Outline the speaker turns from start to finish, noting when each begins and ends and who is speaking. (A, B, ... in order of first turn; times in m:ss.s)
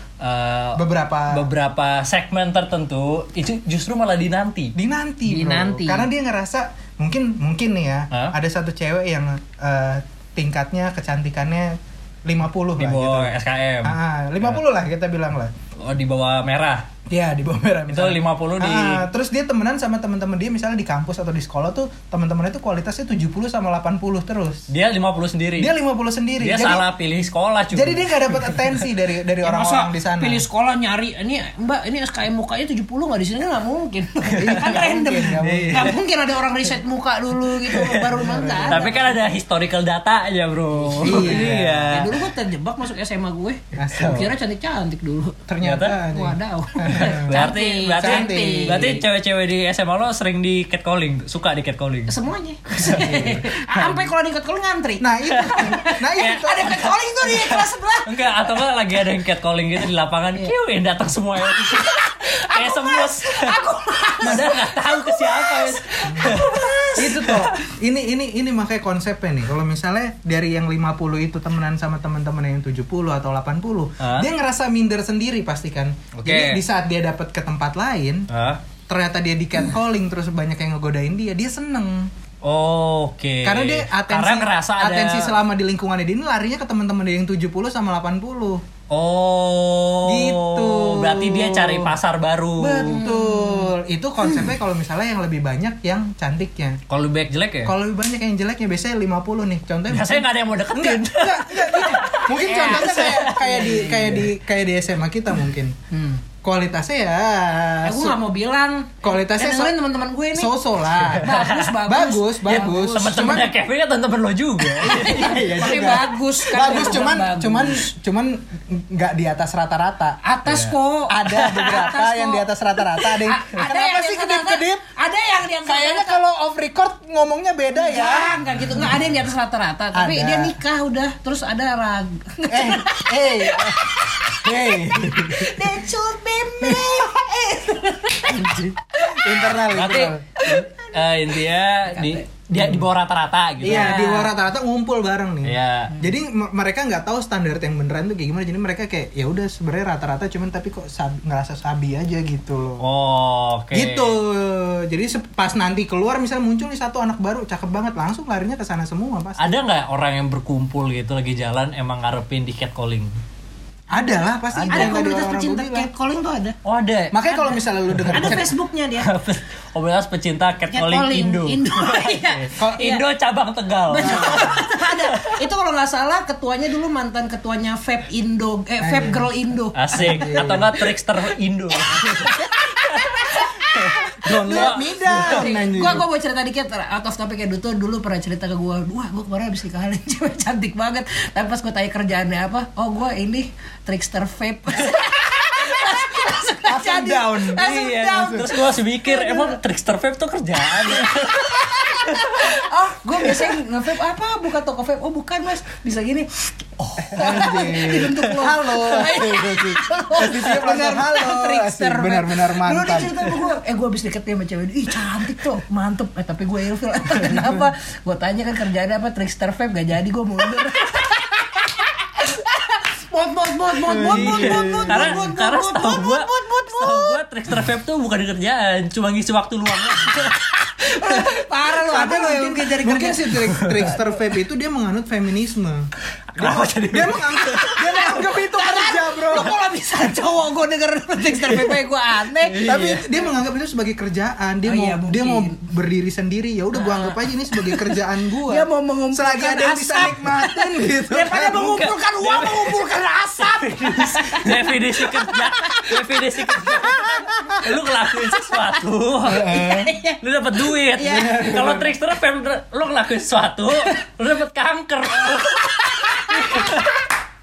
0:00.2-0:04.8 A
0:00.8-0:01.5 B
0:04.8-0:13.3 B
0:05.3-0:06.1 C
0:12.8-0:14.6 A
0:13.8-0:15.5 B
0:15.8-0:16.9 A
0:17.1-0:24.7 B
0:17.9-0:19.0 A
0:24.7-0:25.7 A
0:25.6-0:26.9 B
0:26.4-0:28.6 A
0:27.7-0:30.4 B
0:29.4-0:39.2 C
0:34.4-0:36.0 B
0:34.5-0:34.8 A
0:35.4-0:36.0 A
0:37.7-0:38.1 A
0:38.0-0:39.0 B
0:38.7-0:42.2 A
0:40.8-0:45.4 C
0:41.0-0:41.9 B
0:43.8-0:44.4 B
0:45.5-0:47.4 B
0:45.6-0:46.0 A
0:46.1-0:49.0 C
0:46.9-0:52.2 A
0:48.0-0:49.0 B
0:52.1-0:58.4 C
0:52.8-0:54.0 B
0:52.9-0:53.2 A
0:55.0-0:56.9 B
0:55.4-1:03.6 A
1:01.5-1:07.4 C
1:04.2-1:07.5 A
1:06.1-1:06.4 B
1:07.0-1:18.3 B
1:14.0-1:14.3 A
1:16.1-1:16.6 A
1:18.3-1:18.6 A
1:18.9-1:22.1 B
1:22.4-1:25.4 A
1:23.4-1:28.6 B
1:28.9-1:33.0 A
1:30.0-1:32.0 B
1:32.6-1:36.8 B
1:32.8-1:33.7 C
1:36.9-1:37.7 A
1:37.6-1:45.8 B
1:39.9-1:44.3 A
1:41.8-1:43.8 C
1:45.9-1:46.2 C
1:46.4-1:48.2 B
1:47.8-1:50.5 C
1:49.0-1:49.8 B
1:50.3-1:53.5 B
1:51.1-1:51.8 A
1:51.2-1:53.0 C
1:52.5-1:55.4 A
1:54.8-1:57.9 C
1:54.9-2:00.2 B
2:00.2-2:06.2 C
2:00.4-2:00.8 A
2:01.1-2:04.8 B
2:01.4-2:01.9 A
2:05.6-2:08.9 B
2:07.7-2:19.4 C
2:09.9-2:10.6 B
2:12.5-2:15.7 B
2:16.6-2:17.1 B
2:18.3-2:20.3 B
2:19.3-2:24.1 A
2:20.4-2:21.0 C
2:21.8-2:22.3 C
2:22.5-2:22.9 B
2:23.6-2:32.8 B
2:23.6-2:24.3 C
2:25.4-2:26.0 A
2:32.8-2:34.2 A
2:33.7-2:39.6 B
2:39.4-2:43.1 A
2:43.9-2:45.9 B
2:44.5-2:45.0 A
2:44.7-2:46.6 C
2:46.6-2:48.5 A
2:47.1-2:48.5 B
2:48.1-2:49.1 C
2:49.0-2:55.4 A
2:50.7-2:53.0 C
2:52.6-2:52.9 B
2:53.9-3:00.8 C
2:54.0-2:54.5 B
2:58.8-2:59.3 B
2:59.8-3:05.5 A
3:00.0-3:00.7 B
3:01.8-3:19.6 C
3:04.2-3:06.1 B
3:16.6-3:18.5 B
3:17.6-3:22.5 A
3:21.0-3:47.2 C
3:27.0-3:27.9 A
3:27.0-3:33.4 B
3:43.9-3:45.2 B
3:44.0-3:50.5 A
3:50.7-3:53.7 C
3:51.8-3:59.6 B
3:53.5-3:53.8 A
3:56.3-3:57.9 A
3:57.6-4:02.6 C
4:02.4-4:03.1 A
4:02.6-4:11.8 B
4:04.6-4:05.6 C
4:06.7-4:08.0 C
4:08.5-4:17.7 C
4:11.6-4:19.6 A
4:19.2-4:19.9 B
4:19.3-4:20.2 C
4:20.2-4:27.0 A
4:20.9-4:21.7 C
4:21.1-4:21.9 B
4:25.6-4:26.8 C